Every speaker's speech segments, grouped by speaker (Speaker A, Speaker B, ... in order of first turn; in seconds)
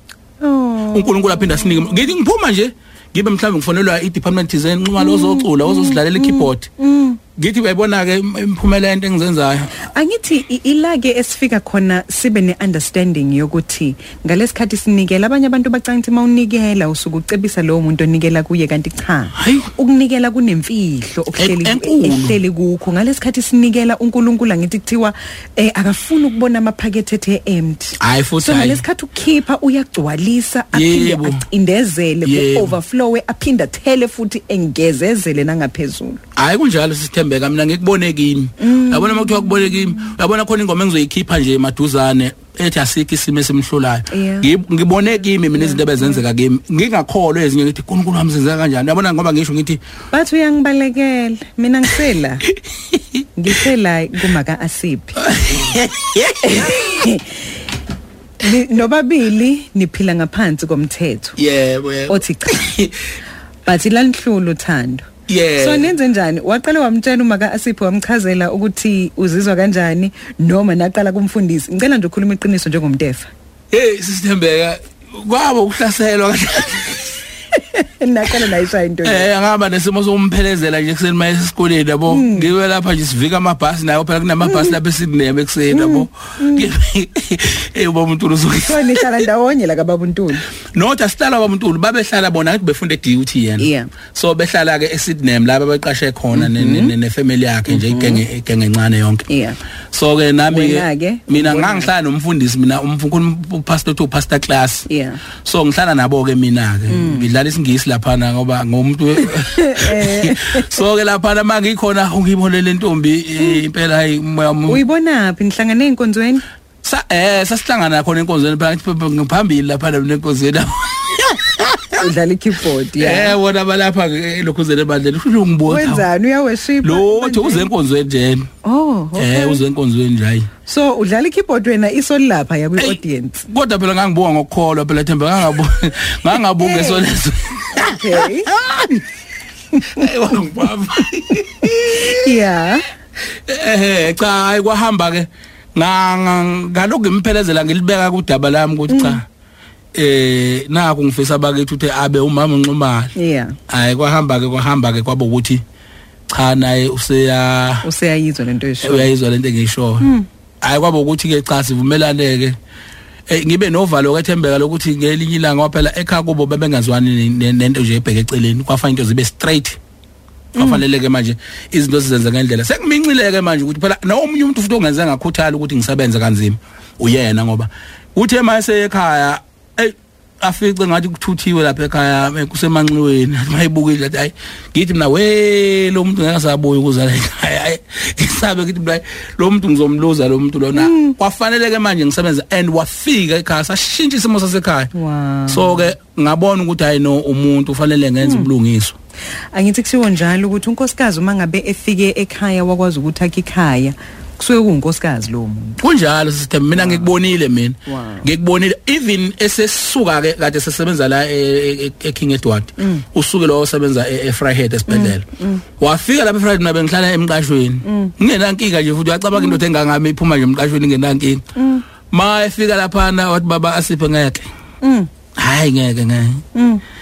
Speaker A: 0.4-2.1, 5.0-7.2, 9.9-36.2, 38.6-40.1, 44.1-44.5, 45.5-46.2, 50.1-52.5, 53.4-55.2, 56.4-57.5, 58.4-61.4, 62.1-62.7, 63.6-73.3, 77.5-79.3, 82.1-82.5, 84.4-84.8, 85.7-86.7, 88.6-90.4, 93.6-93.9, 96.3-96.9, 97.7-98.2, 99.3-99.6, 100.5-101.9, 104.9-105.2, 106.9-107.3, 109.3-110.7, 114.7-116.4, 122.0-123.3, 125.7-127.7, 128.6-129.6, 130.7-133.4, 136.6-137.0, 137.7-138.5, 139.7-140.0, 141.6-142.9, 148.9-149.2, 153.2-153.6, 157.8-159.1, 160.0-160.3, 170.6-170.8, 190.7-191.2, 194.9-195.9, 198.2-198.5, 199.5-205.8, 206.7-207.1, 207.8-208.3, 212.8-213.0, 214.9-215.6, 217.8-218.1, 221.6-221.8, 224.8-225.1, 226.5-226.8
Speaker B: 0.9-6.7, 7.3-9.7, 19.4-19.7, 21.4-22.4, 28.0-28.8, 30.7-31.4, 32.2-32.7, 36.4-49.8, 52.9-53.2, 55.2-57.1, 61.4-63.0, 65.3-65.9, 73.7-77.2, 79.0-89.1, 90.7-99.2, 99.9-104.9, 105.4-114.8, 116.8-122.0, 123.0-126.0, 126.8-128.5, 129.2-130.5, 133.5-139.0, 139.8-142.3, 143.4-149.2, 149.9-153.1, 153.7-155.6, 156.3-157.8, 158.8-160.1, 160.6-162.6, 163.3-169.8, 170.6-194.9, 195.5-198.9, 205.8-215.2, 215.8-221.4, 222.1-224.5, 225.3-226.4